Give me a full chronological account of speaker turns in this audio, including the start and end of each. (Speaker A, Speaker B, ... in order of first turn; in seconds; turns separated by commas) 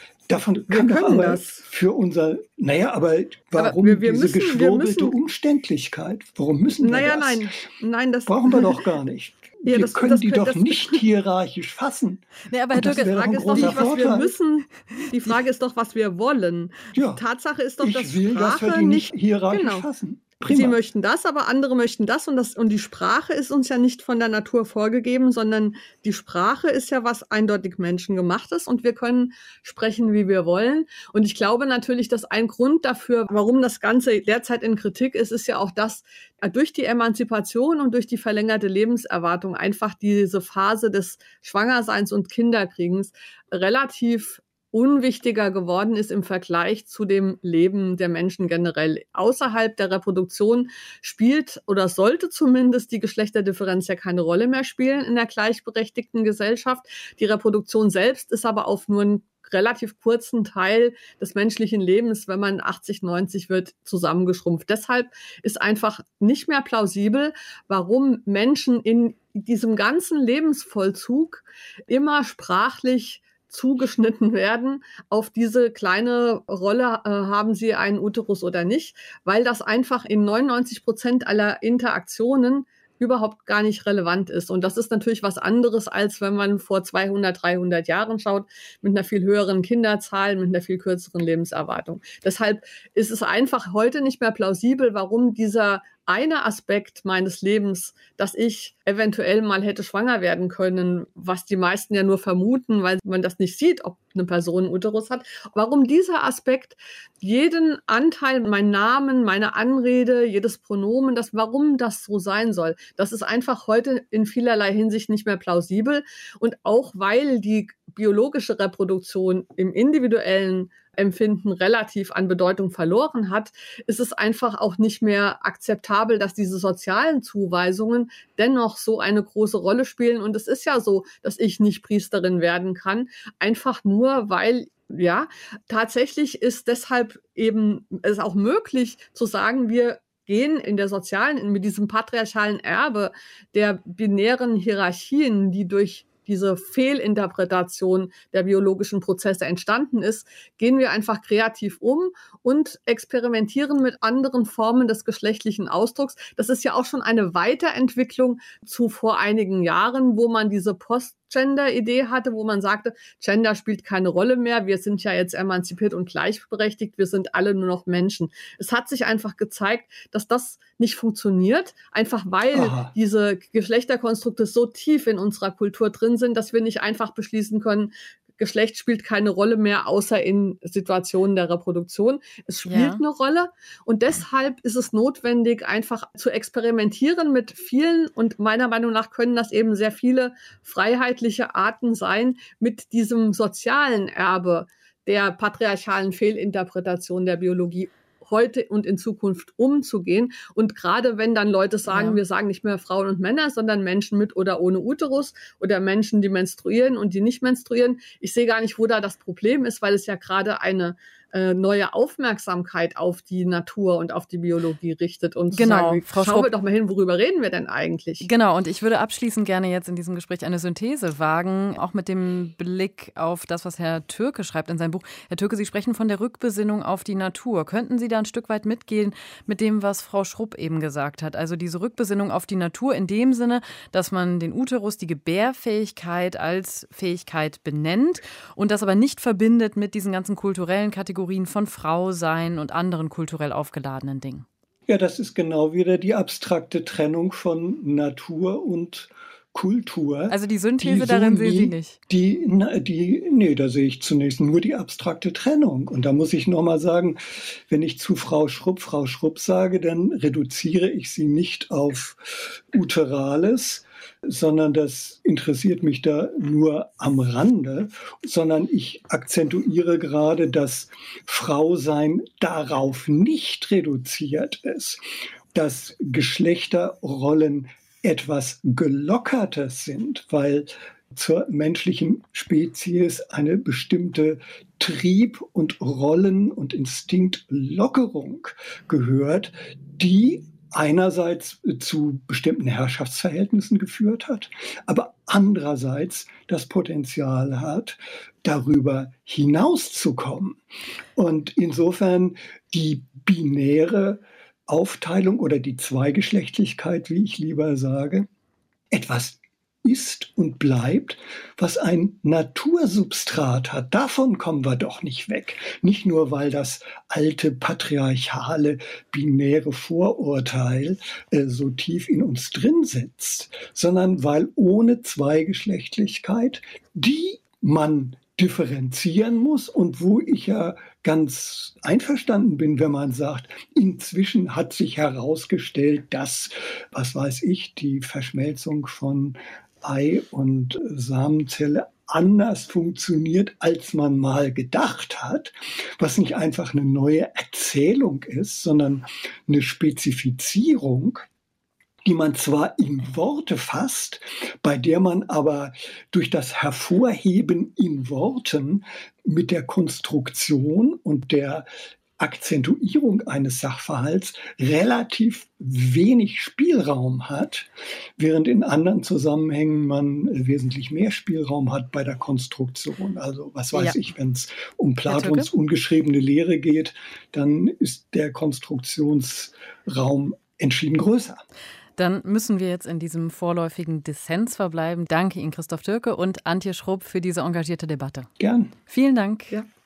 Speaker A: 0.3-7.5, Speaker B: 0.7-1.6, Speaker B: 3.6-5.2, Speaker B: 6.8-8.8, Speaker A: 8.3-14.3, Speaker B: 9.7-11.0, Speaker C: 12.5-14.2, Speaker B: 12.8-19.9, Speaker A: 16.9-17.2, Speaker A: 17.8-20.8, Speaker B: 20.4-218.3, Speaker A: 172.5-172.9, Speaker C: 182.7-183.0, Speaker C: 201.9-202.2, Speaker C: 215.5-216.5, Speaker C: 218.2-244.5, Speaker A: 244.9-300.6, Speaker C: 250.3-252.0, Speaker A: 301.2-308.3, Speaker A: 308.9-351.3, Speaker A: 352.0-361.7, Speaker A: 362.2-381.4, Speaker C: 375.1-375.5, Speaker C: 382.0-388.3, Speaker A: 388.4-388.7, Speaker C: 388.9-389.6